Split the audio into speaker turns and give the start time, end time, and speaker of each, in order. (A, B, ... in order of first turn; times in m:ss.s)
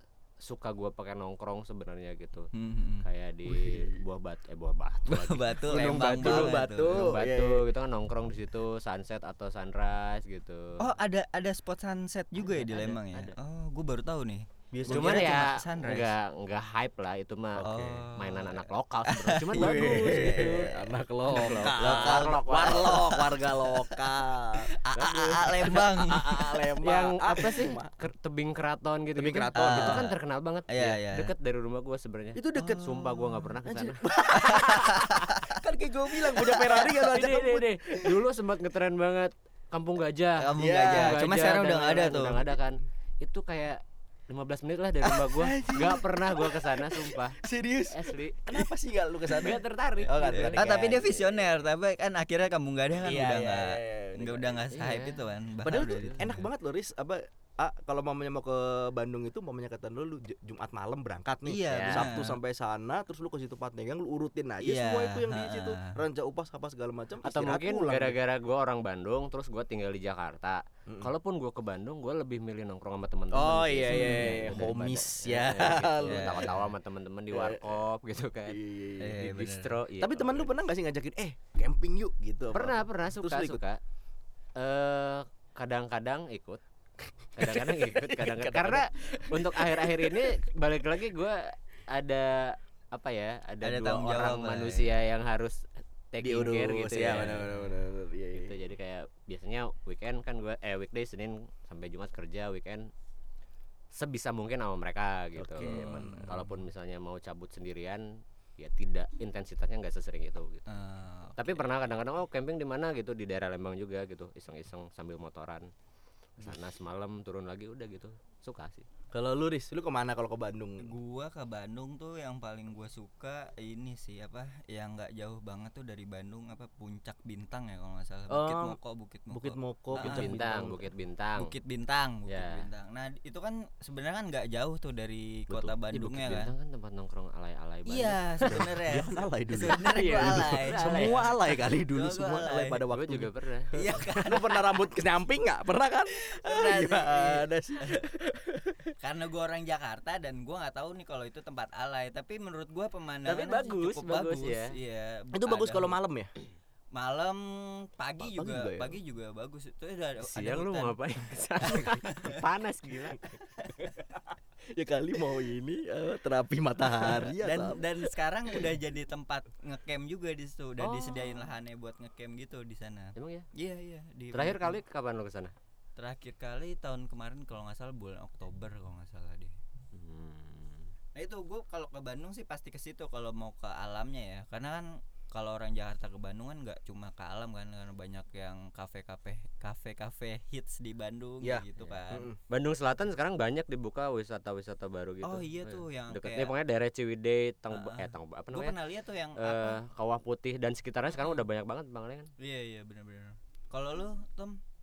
0:00.4-0:02.5 A
0:02.5-0:03.0 B
0:03.0-0:10.8 A
0:03.5-0:04.0 C
0:05.1-0:07.2 B
0:05.7-0:07.6 C
0:10.8-0:16.1 B
0:12.4-0:13.4 A
0:14.7-0:15.4 C
0:14.9-0:23.0 A
0:17.6-0:18.1 C
0:17.6-0:20.7 B
0:19.5-0:27.9 C
0:21.3-0:26.5 B
0:25.0-0:25.4 A
0:26.8-0:34.8 A
0:29.2-0:30.1 C
0:29.6-0:30.1 B
0:30.7-0:31.3 B
0:32.3-0:32.9 C
0:32.5-0:33.5 B
0:33.6-0:38.2 C
0:34.3-0:35.5 B
0:36.4-0:47.4 A
0:40.4-0:42.5 B
0:40.6-0:41.3 C
0:45.2-0:51.0 C
0:47.9-0:48.5 A
0:49.3-0:51.3 A
0:50.3-0:56.5 B
0:53.0-0:54.6 C
0:54.7-0:55.2 A
0:55.6-1:08.2 C
1:01.4-1:02.4 B
1:01.7-1:02.1 A
1:04.6-1:06.0 B
1:07.2-1:18.6 A
1:13.3-1:16.5 C
1:13.9-1:14.7 B
1:16.0-1:16.7 B
1:17.3-1:17.8 C
1:18.5-1:19.2 C
1:19.0-1:19.7 B
1:19.1-1:20.5 A
1:20.0-1:23.6 C
1:22.5-1:23.8 A
1:24.6-1:26.6 A
1:27.3-1:37.5 A
1:27.4-1:30.2 C
1:33.6-1:35.0 B
1:36.2-1:38.6 C
1:37.1-1:37.8 B
1:38.3-1:42.9 A
1:43.9-1:50.7 A
1:45.4-1:46.4 C
1:45.6-1:46.5 B
1:50.7-1:51.8 B
1:51.4-1:55.7 A
1:56.4-1:58.8 A
1:59.1-2:00.9 C
2:00.8-2:10.3 B
2:08.3-2:08.8 C
2:09.3-2:10.9 C
2:10.0-2:11.5 A
2:11.4-2:16.5 B
2:12.3-2:12.7 A
2:15.6-2:18.6 A
2:17.9-2:22.8 B
2:18.5-2:28.9 C
2:19.6-2:21.3 A
2:22.9-2:24.1 A
2:23.7-2:24.7 B
2:26.2-2:28.1 B
2:29.0-2:36.0 B
2:33.2-2:34.8 A
2:35.3-2:36.3 C
2:36.9-2:41.0 B
2:38.2-2:39.0 C
2:40.2-2:43.4 A
2:41.6-2:42.4 B
2:44.7-2:47.8 C
2:47.0-2:54.8 B
2:50.8-2:51.5 A
2:53.2-2:53.5 A
2:54.3-2:55.5 A
2:56.0-2:59.6 B
2:59.9-3:00.9 A
3:01.1-3:12.3 B
3:11.4-3:12.4 C
3:12.5-3:18.8 A
3:15.2-3:16.5 B
3:17.7-3:19.8 B
3:19.4-3:22.3 A
3:21.1-3:21.4 B
3:22.4-3:24.6 B